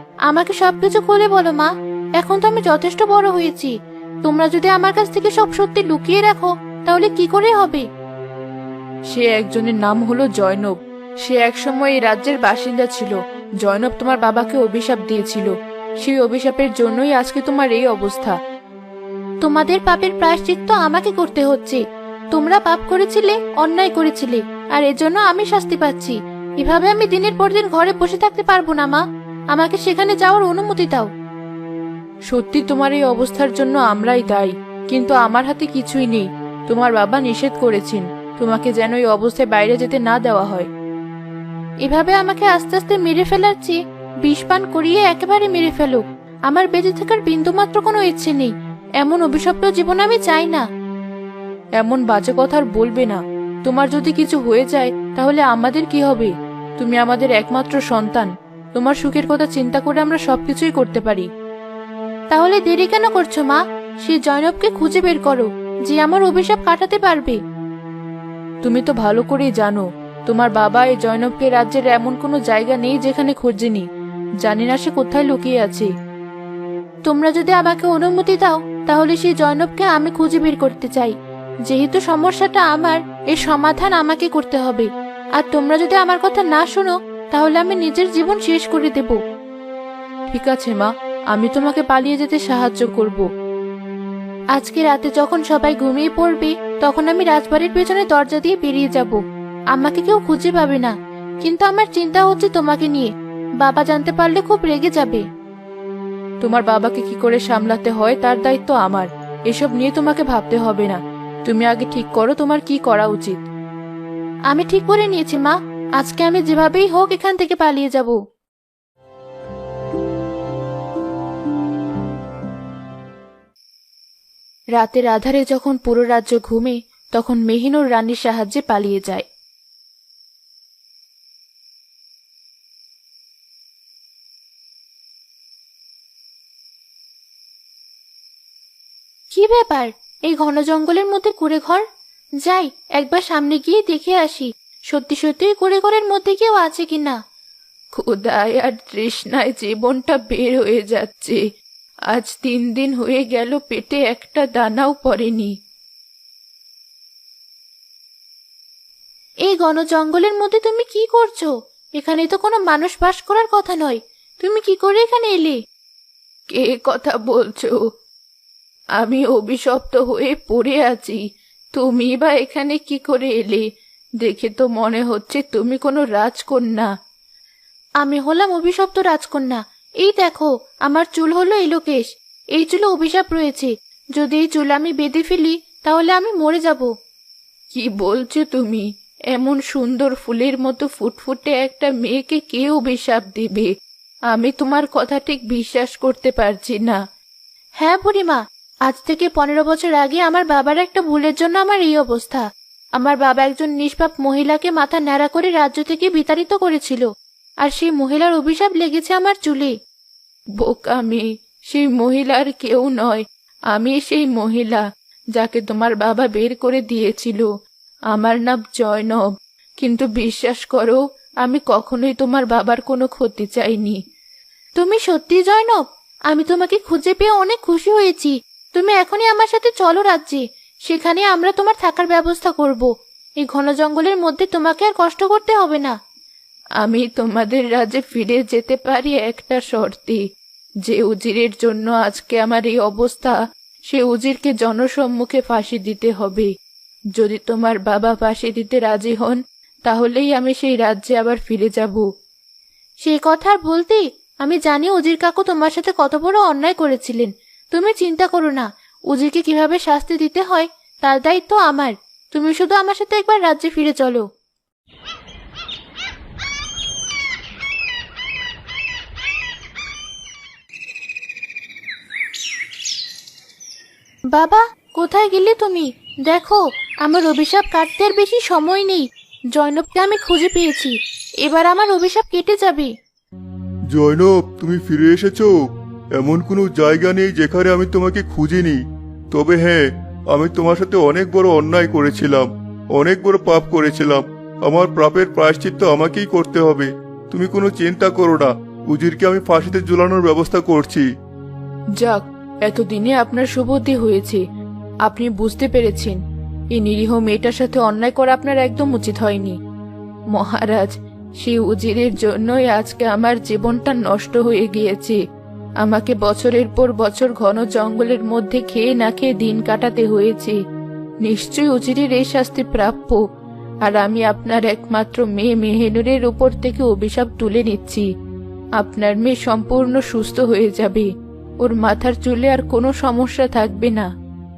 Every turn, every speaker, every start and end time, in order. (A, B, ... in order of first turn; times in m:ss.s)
0:00.3-0:01.7 A
0:02.2-0:03.7 A
0:04.2-0:07.8 A
0:09.1-0:18.4 B
0:19.4-0:21.8 A
0:22.3-0:29.0 A
0:29.5-0:31.1 A
0:32.3-0:40.7 B
0:41.8-0:50.6 A
0:51.8-1:01.3 B
1:02.3-1:07.4 A
1:08.6-1:13.8 B
1:14.4-1:15.9 B
1:17.1-1:21.1 A
1:21.7-1:29.2 A
1:30.3-1:33.2 B
1:34.6-1:39.2 A
1:39.8-1:43.1 A
1:43.6-1:45.2 A
1:46.4-1:53.4 B
1:54.5-1:58.1 A
2:04.8-2:09.2 B
2:19.3-2:21.8 A
2:22.4-2:27.2 A
2:27.9-2:31.4 B
2:32.1-2:35.5 B
2:39.4-2:45.6 A
2:46.5-2:47.8 B
2:49.0-2:51.2 B
2:51.8-2:53.7 B
2:54.2-2:56.9 B
2:58.0-3:06.9 A
3:07.7-3:13.7 B
3:14.3-3:17.0 B
3:17.8-3:22.4 A
3:23.0-3:27.1 A
3:27.6-3:29.7 A
3:30.6-3:34.8 B
3:35.4-3:37.5 B
3:38.1-3:39.2 B
3:39.8-3:44.0 B
3:44.8-3:52.9 A
3:53.4-3:55.9 A
3:56.8-4:00.2 B
4:00.8-4:03.4 B
4:03.9-4:06.5 B
4:07.2-4:12.1 B
4:13.0-4:24.2 A
4:34.3-4:42.9 A
4:43.9-4:45.6 C
4:46.2-5:01.1 C
5:02.0-5:04.4 B
5:05.0-5:06.2 B
5:06.7-5:09.6 B
5:10.3-5:15.2 B
5:15.8-5:20.6 B
5:21.2-5:23.2 B
5:23.8-5:28.1 B
5:28.8-5:31.1 B
5:31.6-5:34.1 B